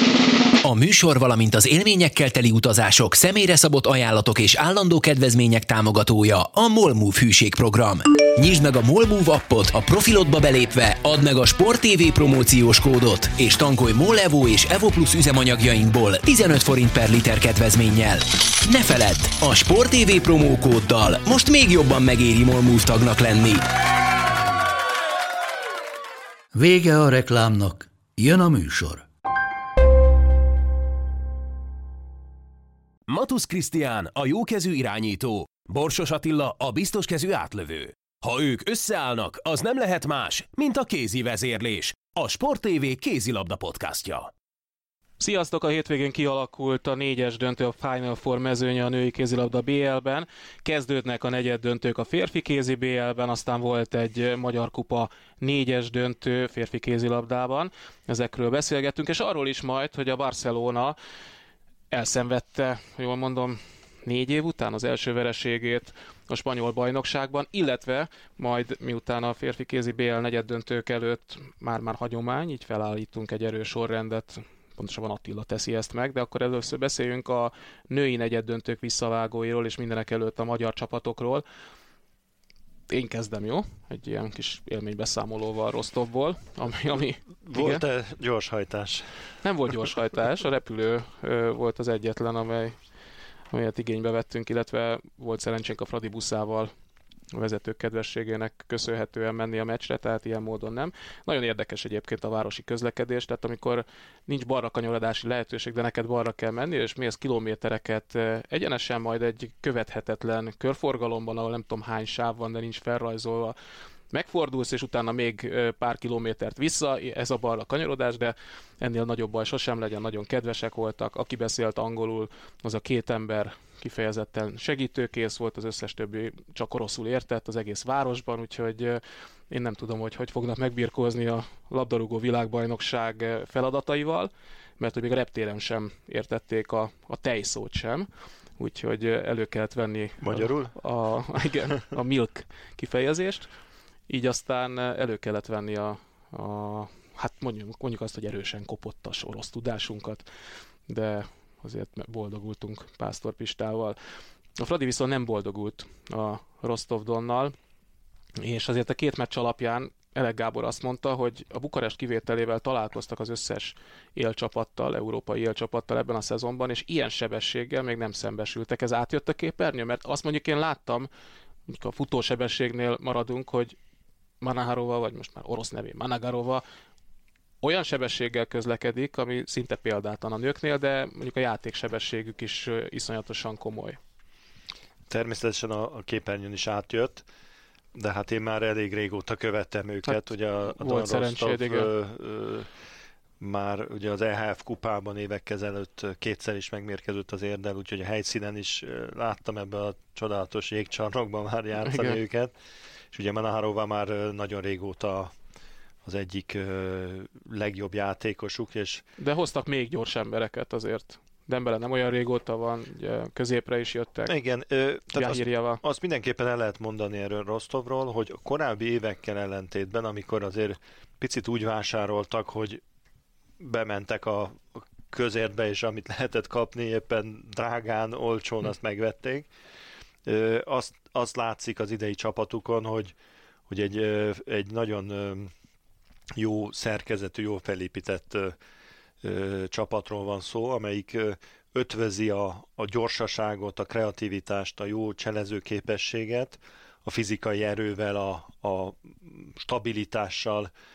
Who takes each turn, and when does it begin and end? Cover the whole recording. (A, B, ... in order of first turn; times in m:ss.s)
0:00.6-0:23.6 A
0:26.5-0:29.1 B
0:33.1-0:44.3 C
0:45.2-1:01.0 D
1:01.9-1:21.4 D
1:22.9-1:27.8 D
1:27.5-1:29.1 E
1:29.4-1:32.8 D
1:33.5-1:36.7 D
1:37.3-1:53.6 D
1:54.1-2:23.5 D
2:20.2-2:20.8 E
2:24.1-2:30.2 D
2:30.9-2:34.0 D
2:34.6-2:37.5 D
2:38.4-2:51.1 D
2:51.7-2:53.8 D
2:54.4-2:56.6 D
2:57.6-3:04.0 D
3:05.1-3:07.2 E
3:08.0-3:12.7 E
3:10.1-3:11.9 D
3:13.4-3:22.5 E
3:21.8-3:22.2 D
3:23.1-3:25.3 E
3:26.0-3:29.0 E
3:29.2-3:34.3 D
3:34.3-3:42.8 E
3:35.2-3:35.8 D
3:43.6-3:49.5 E
3:50.2-3:53.2 E
3:53.7-3:55.5 E
3:56.4-3:58.6 E
3:59.2-4:10.7 E